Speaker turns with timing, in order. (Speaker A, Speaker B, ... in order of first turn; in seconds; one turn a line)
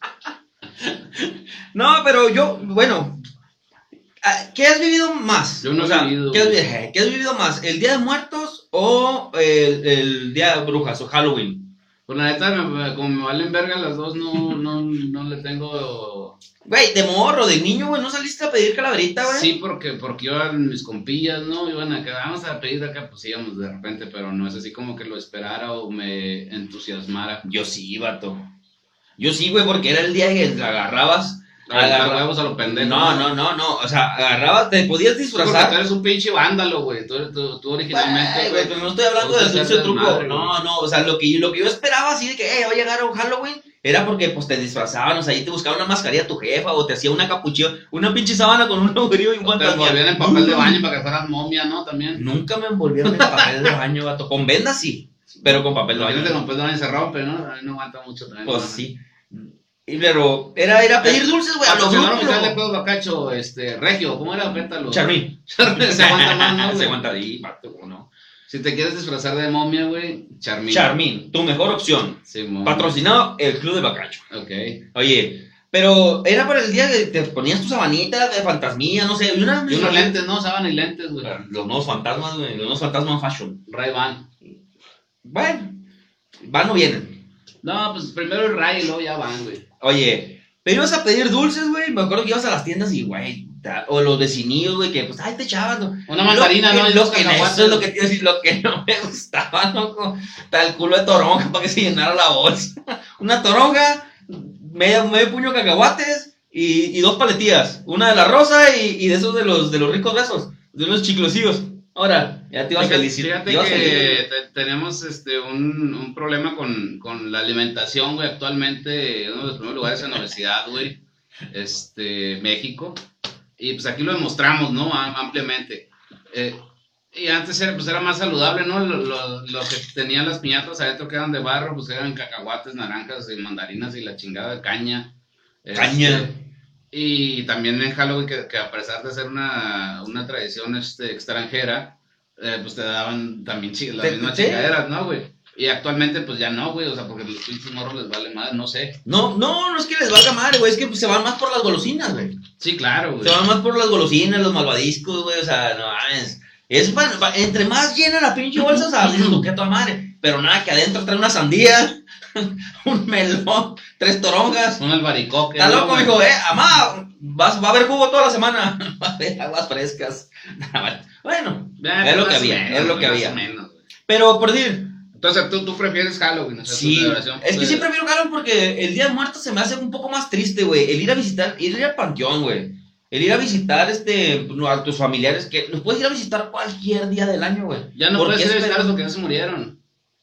Speaker A: 0.8-3.2
Speaker A: 4.2-11.7
Speaker B: 5.6-6.6
Speaker B: 12.1-16.4
Speaker A: 16.6-19.5
Speaker B: 19.2-27.4
Speaker A: 27.4-28.4
Speaker A: 29.2-35.8
Speaker B: 31.7-33.3
Speaker B: 35.3-40.5
Speaker A: 37.9-50.8
Speaker B: 49.4-52.2
Speaker A: 52.1-56.4
Speaker B: 53.1-53.7
Speaker B: 55.4-58.9
Speaker A: 58.5-62.6
Speaker B: 61.0-67.0
Speaker A: 64.8-68.1
Speaker B: 68.5-71.0
Speaker A: 70.7-74.3
Speaker B: 72.3-73.0
Speaker B: 74.3-74.8
Speaker A: 74.9-80.2
Speaker B: 79.7-81.4
Speaker A: 81.2-83.6
Speaker B: 83.7-84.3
Speaker A: 85.2-85.8
Speaker A: 86.4-87.2
Speaker B: 87.6-89.6
Speaker A: 89.8-114.2
Speaker B: 96.1-97.9
Speaker B: 112.8-121.0
Speaker B: 121.5-123.0
Speaker B: 123.6-135.1
Speaker B: 135.6-136.3
Speaker A: 135.8-136.3
Speaker B: 136.9-149.0
Speaker A: 144.0-144.8
Speaker A: 149.1-152.4
Speaker B: 152.6-153.5
Speaker A: 153.2-164.8
Speaker B: 158.6-159.4
Speaker B: 164.8-166.2
Speaker A: 165.6-173.4
Speaker B: 171.8-173.8
Speaker A: 174.1-175.0
Speaker B: 175.2-177.9
Speaker A: 176.7-188.9
Speaker B: 187.9-189.8